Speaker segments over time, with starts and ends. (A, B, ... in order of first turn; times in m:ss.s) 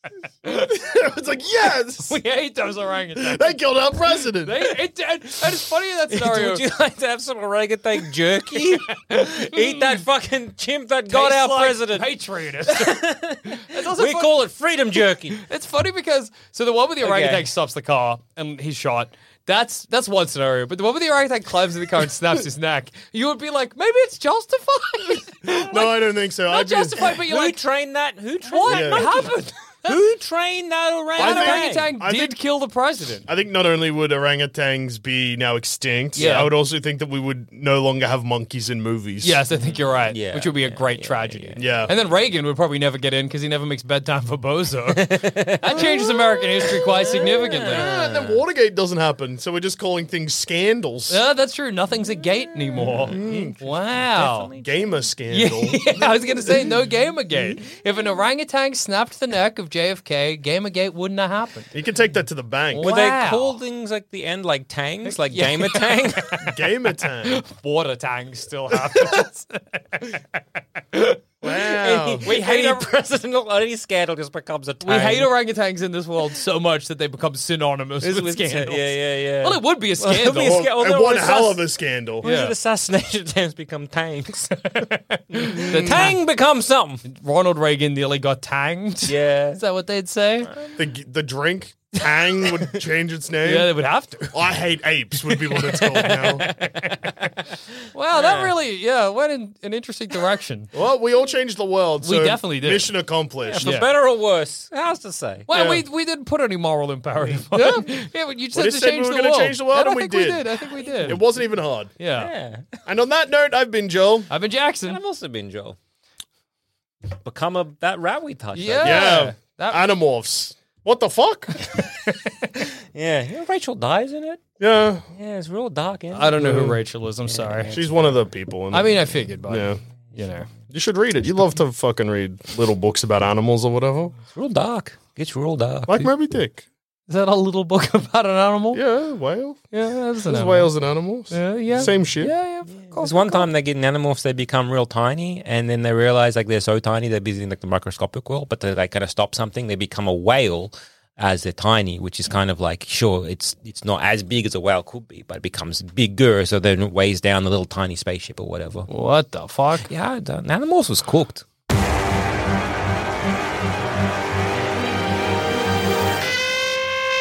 0:00.4-0:00.7 A
0:00.6-0:02.2 B
0:02.0-0:03.6 A
0:03.2-0:04.6 B
0:04.4-0:06.6 A
0:06.1-0:15.4 C
0:08.9-0:10.0 A
0:11.1-0:14.4 A
0:15.3-0:25.9 A
0:17.0-0:17.5 C
0:25.5-0:25.8 C
0:25.7-0:27.1 B
0:26.4-0:27.6 A
0:27.2-0:31.9 C
0:28.4-0:30.0 A
0:28.6-0:29.1 B
0:31.2-0:32.4 B
0:31.2-0:33.3 A
0:33.2-0:39.4 B
0:36.2-0:36.5 A
0:36.2-0:36.5 C
0:39.2-0:47.9 A
0:39.5-0:41.9 C
0:41.6-0:41.9 B
0:44.9-0:46.0 C
0:47.0-0:48.4 C
0:47.7-0:51.2 B
0:51.1-0:54.5 A
0:52.9-0:54.9 C
0:53.0-0:53.5 B
0:54.6-0:55.8 B
0:55.3-1:01.7 A
1:01.7-1:02.9 B
1:02.7-1:03.6 A
1:02.8-1:06.4 C
1:05.0-1:06.5 A
1:06.4-1:07.4 B
1:07.2-1:10.4 A
1:08.9-1:09.1 B
1:10.9-1:11.2 A
1:11.4-1:12.3 B
1:11.8-1:15.3 C
1:12.2-1:12.8 A
1:14.8-1:20.6 A
1:18.0-1:21.6 C
1:20.4-1:22.2 B
1:22.2-1:24.6 C
1:22.2-1:22.5 A
1:24.6-1:26.1 A
1:25.4-1:27.0 C
1:25.6-1:26.1 B
1:27.0-1:30.5 A
1:29.1-1:29.6 C
1:30.4-1:30.8 C
1:30.8-1:33.7 B
1:33.4-1:34.3 A
1:34.3-1:36.4 B
1:35.3-1:37.3 A
1:36.4-1:37.0 C
1:37.9-1:40.7 A
1:38.1-1:38.5 C
1:40.7-1:43.7 B
1:42.0-1:42.9 A
1:43.4-1:45.5 C
1:43.6-1:43.9 A
1:45.5-1:51.2 A
1:45.5-1:45.8 B
1:47.5-1:47.9 B
1:48.5-1:50.4 B
1:50.8-1:51.3 C
1:51.0-1:51.9 B
1:52.0-1:52.3 A
1:52.2-1:52.7 C
1:52.8-1:54.3 B
1:54.3-1:55.0 A
1:54.8-1:55.8 C
1:57.2-1:59.3 C
1:58.5-1:59.8 A
1:58.8-2:01.6 B
2:02.9-2:04.4 C
2:04.6-2:05.0 B
2:05.1-2:06.7 C
2:06.1-2:07.7 A
2:06.4-2:06.7 B
2:07.3-2:07.9 C
2:07.7-2:09.8 B
2:08.7-2:10.5 A
2:10.7-2:14.2 B
2:14.3-2:15.9 C
2:15.9-2:16.6 B
2:17.1-2:18.8 A
2:18.7-2:22.3 B
2:19.7-2:20.7 A
2:21.3-2:23.5 A
2:22.7-2:38.9 C
2:38.9-2:39.9 A
2:39.8-2:41.4 C